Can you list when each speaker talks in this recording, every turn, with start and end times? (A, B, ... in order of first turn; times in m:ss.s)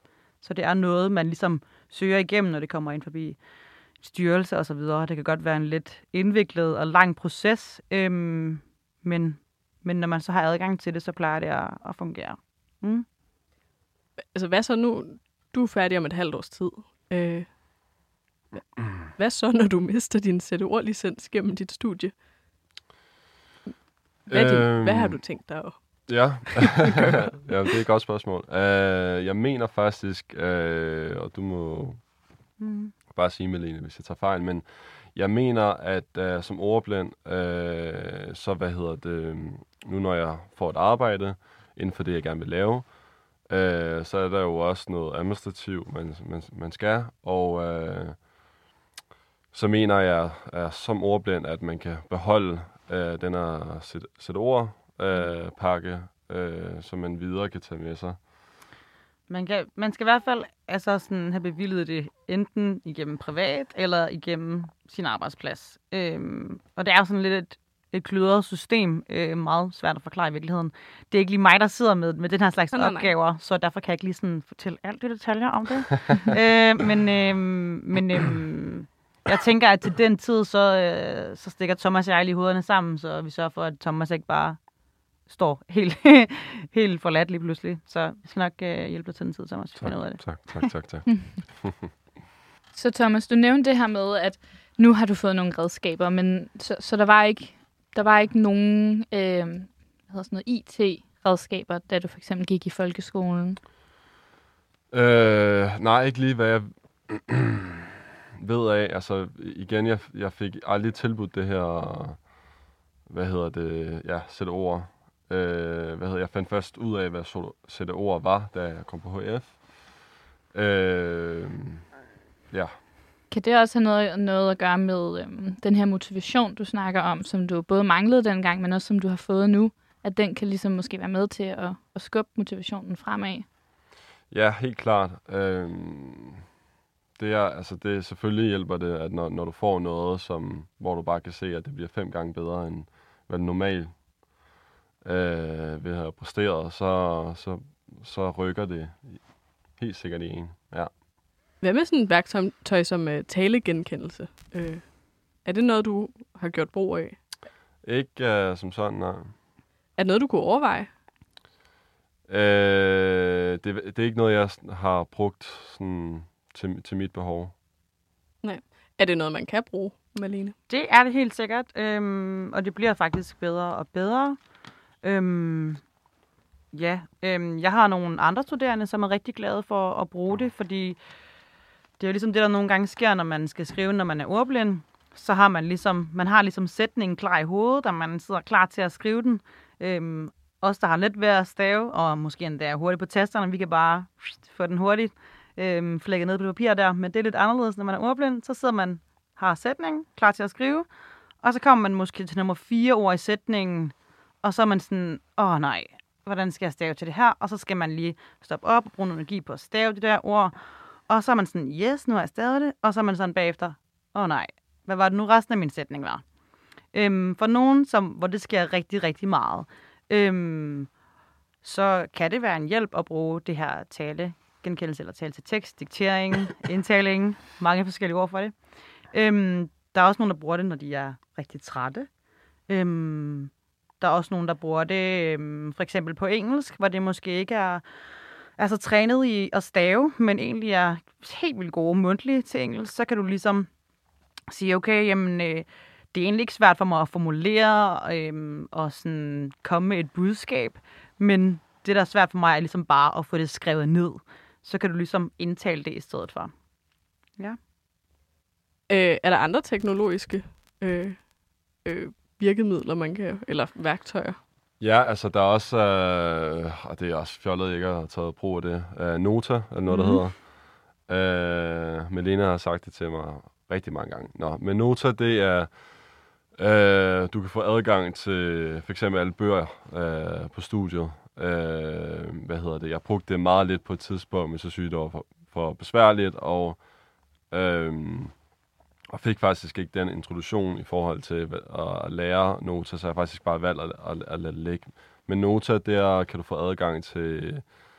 0:00.4-0:03.4 A
0:04.0-0:13.0 A
0:14.3-0:17.6 B
0:19.1-0:22.2 B
0:24.2-0:27.3 B
0:24.3-0:25.2 C
0:26.1-0:32.0 C
0:32.6-0:32.9 A
0:33.1-0:42.9 C
0:43.4-0:48.2 C
0:49.5-0:58.2 C
0:59.3-1:24.6 A
1:12.7-1:13.1 B
1:25.3-1:30.7 A
1:29.8-1:31.8 C
1:31.1-1:31.4 D
1:32.7-1:43.6 D
1:44.9-1:52.2 C
1:53.1-2:01.8 C
2:03.3-2:13.4 D
2:14.3-2:16.4 C
2:17.2-2:24.0 C
2:25.0-2:29.2 C
2:29.7-2:30.9 C
2:31.6-2:37.2 B
2:37.8-2:39.3 C
2:40.0-2:40.9 B
2:42.3-2:47.5 C
2:48.4-2:50.5 B
2:50.7-2:54.4 A
2:55.0-2:55.8 A
2:56.7-3:01.0 A
3:02.0-3:20.9 A
3:21.4-3:30.6 A
3:31.1-3:36.2 A
3:36.9-3:40.9 A
3:41.6-3:48.5 A
3:49.1-3:52.1 A
3:52.7-3:57.8 A
3:58.6-4:03.7 A
4:04.5-4:16.5 A
4:18.9-4:24.4 B
4:24.8-4:46.8 C
4:29.9-4:30.2 A
4:47.5-4:48.3 C
4:49.1-4:57.7 C